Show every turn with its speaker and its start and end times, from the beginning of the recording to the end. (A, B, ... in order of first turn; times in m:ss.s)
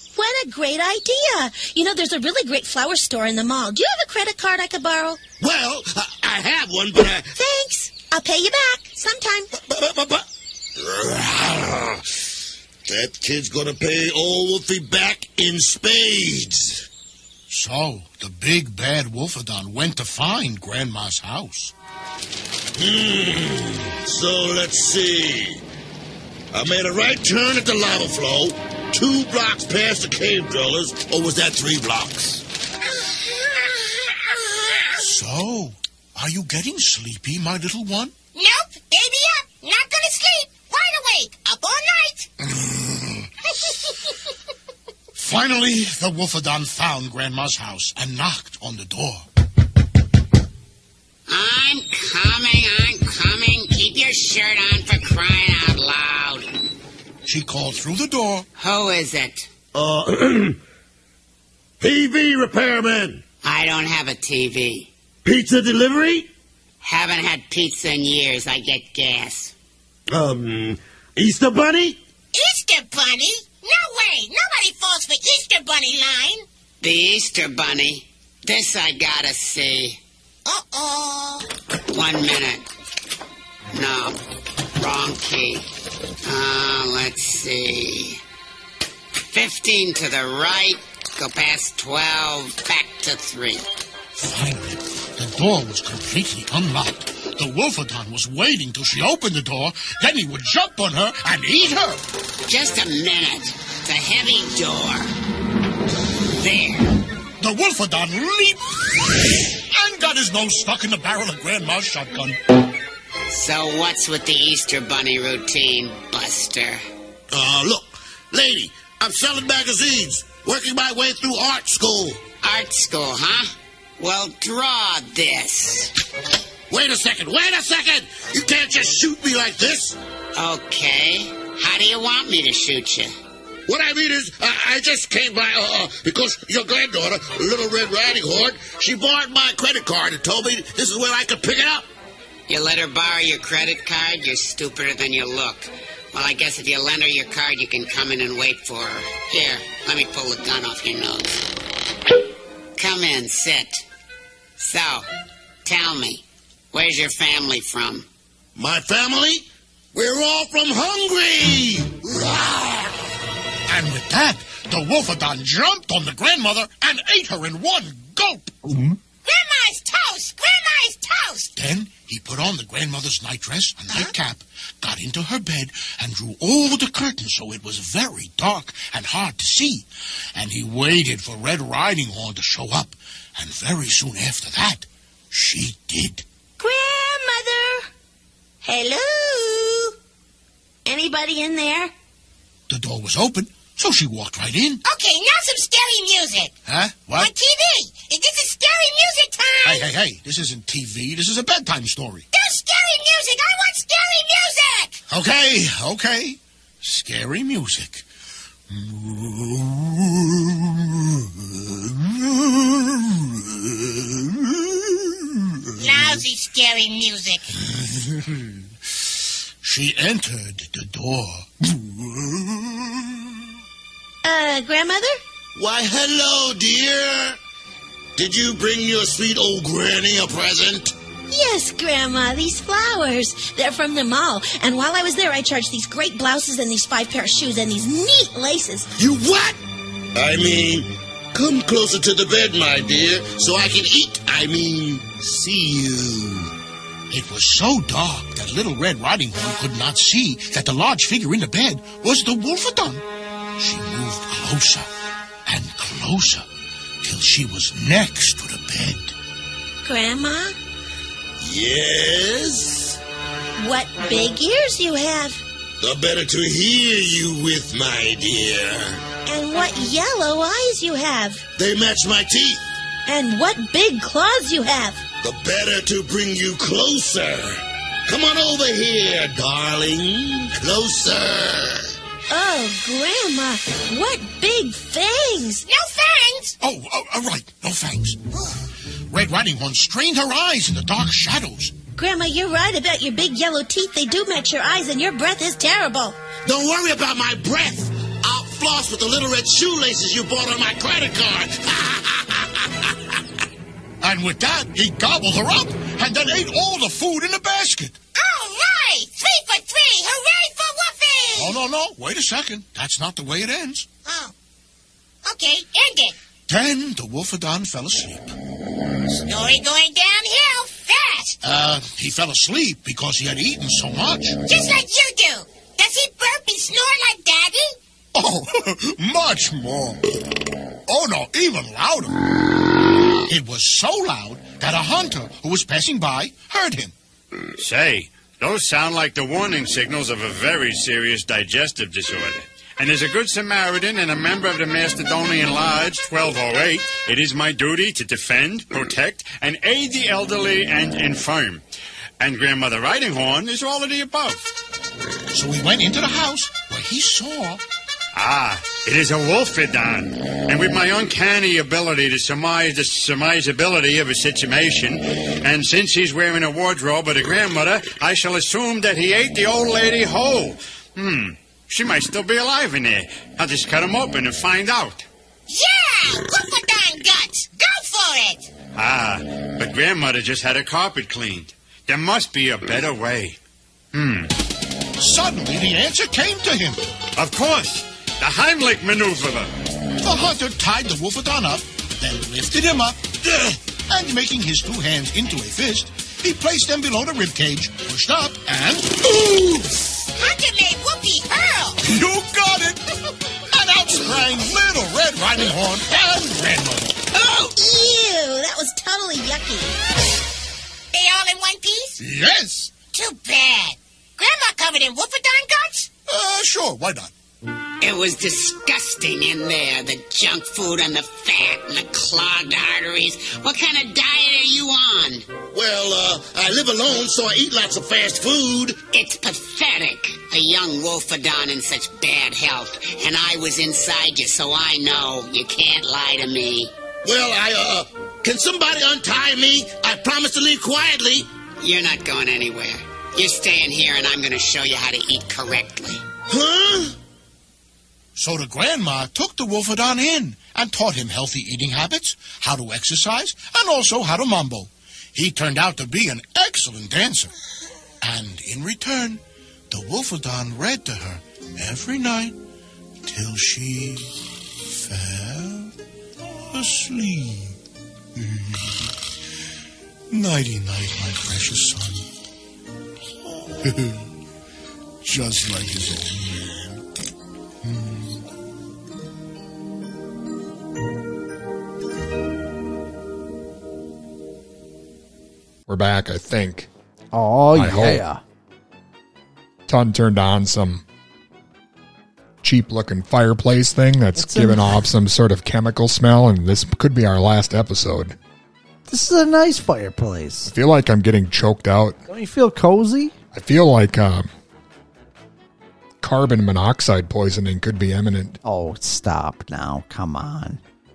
0:00.1-0:05.2 A
0:05.4-0:07.3 B
0:07.4-0:09.5 A
0:09.5-0:12.0 B
0:12.8-0:16.8 B
0:17.5-0:21.7 C
0:22.8-0:25.6 B
0:26.5-0:32.4 B
0:33.0-0:34.9 D
0:35.0-0:38.1 C
0:38.3-0:42.3 D
0:42.5-0:43.3 C
0:45.1-0:49.2 C
0:51.3-0:56.5 E
0:57.2-0:58.5 C
0:58.6-0:59.5 E
0:59.7-1:00.6 B
1:01.8-1:03.2 B
1:03.4-1:04.9 E
1:05.2-1:06.3 B
1:06.8-1:09.5 E
1:10.1-1:12.0 B
1:12.3-1:16.4 D
1:16.8-1:20.0 E
1:20.4-1:21.4 D
1:21.9-1:22.6 E
1:23.7-1:24.2 E
1:24.8-1:25.6 E
1:26.2-1:28.2 E
1:29.3-1:33.6 E
1:34.1-1:42.0 C
1:42.5-1:45.1 E
1:46.4-1:47.0 E
1:47.4-1:48.9 C
1:49.5-1:52.4 C
1:53.3-1:56.8 E
1:57.3-2:02.2 B
2:02.4-2:05.9 E
2:06.7-2:10.0 B
2:10.3-2:13.1 E
2:13.7-2:21.9 B
2:22.5-2:31.4 E
2:32.8-2:33.8 E
2:34.6-2:35.0 E
2:35.6-2:38.0 E
2:38.5-2:43.0 B
2:43.7-2:48.7 C
2:49.2-2:51.5 D
2:51.6-3:06.2 C
3:06.6-3:07.9 A
3:08.6-3:09.9 A
3:10.8-3:11.9 A
3:12.7-3:14.8 C
3:14.8-3:16.5 D
3:16.7-3:17.3 C
3:17.1-3:19.9 D
3:19.6-3:22.2 C
3:22.3-3:25.0 D
3:25.1-3:28.0 C
3:28.7-3:36.2 C
3:35.8-3:37.4 D
3:38.0-3:38.4 C
3:39.6-3:43.2 C
3:44.2-3:45.2 A
3:45.5-3:47.4 B
3:48.2-3:50.9 B
3:51.3-3:58.9 A
3:59.0-3:59.6 B
4:00.1-4:06.5 B
4:07.1-4:13.0 C
4:13.6-4:14.9 C
4:15.5-4:16.4 C
4:17.0-4:19.1 C
4:19.8-4:20.6 A
4:21.4-4:23.0 B
4:23.6-4:25.4 A
4:25.8-4:29.0 B
4:29.2-4:31.4 A
4:31.6-4:32.6 B
4:33.0-4:35.0 A
4:35.2-4:41.9 B
4:42.3-4:45.6 A
4:45.6-4:46.5 D
4:46.6-4:48.2 C
4:49.1-4:51.8 C
4:52.0-4:56.2 A
4:56.4-5:03.2 B
5:04.0-5:08.0 C
5:08.2-5:11.5 D
5:11.3-5:13.9 C
5:14.0-5:14.3 D
5:15.2-5:16.1 D
5:16.5-5:18.3 C
5:19.2-5:21.4 D
5:21.4-5:24.4 C
5:24.4-5:27.8 D
5:28.1-5:30.0 C
5:30.9-5:32.1 C
5:33.3-5:36.9 C
5:37.6-5:51.6 F
5:52.2-5:54.4 F
5:55.3-5:57.6 C
5:58.1-6:15.0 F
6:15.5-6:18.5 D
6:18.7-6:23.4 F
6:23.9-6:24.3 F
6:25.0-6:26.8 C
6:27.2-6:29.5 F
6:30.0-6:39.7 C
6:40.2-6:41.8 D
6:41.8-6:42.8 C
6:43.5-6:47.1 C
6:47.2-6:49.8 A
6:50.9-6:52.0 D
6:52.0-6:52.8 C
6:52.9-6:55.9 D
6:56.1-6:57.1 C
6:57.8-7:05.3 E
7:05.5-7:08.8 B
7:08.9-7:16.7 E
7:17.0-7:21.3 B
7:21.6-7:26.0 E
7:26.3-7:26.9 B
7:28.2-7:37.3 C
7:38.0-7:42.4 C
7:43.0-7:44.1 C
7:44.6-7:45.7 C
7:46.4-7:47.6 C
7:48.2-7:48.9 C
7:50.1-7:52.0 C
7:53.4-7:54.0 C
7:55.0-7:56.8 C
7:57.6-7:58.2 C
8:05.7-8:06.7 G
8:07.1-8:08.2 H
8:07.5-8:08.0 G
8:09.7-8:10.8 G
8:12.4-8:18.2 G
8:14.2-8:14.8 H
8:18.8-8:20.5 H
8:20.4-8:22.0 G
8:22.1-8:23.1 H
8:23.3-8:24.3 G
8:26.0-8:28.4 G
8:28.4-8:30.6 H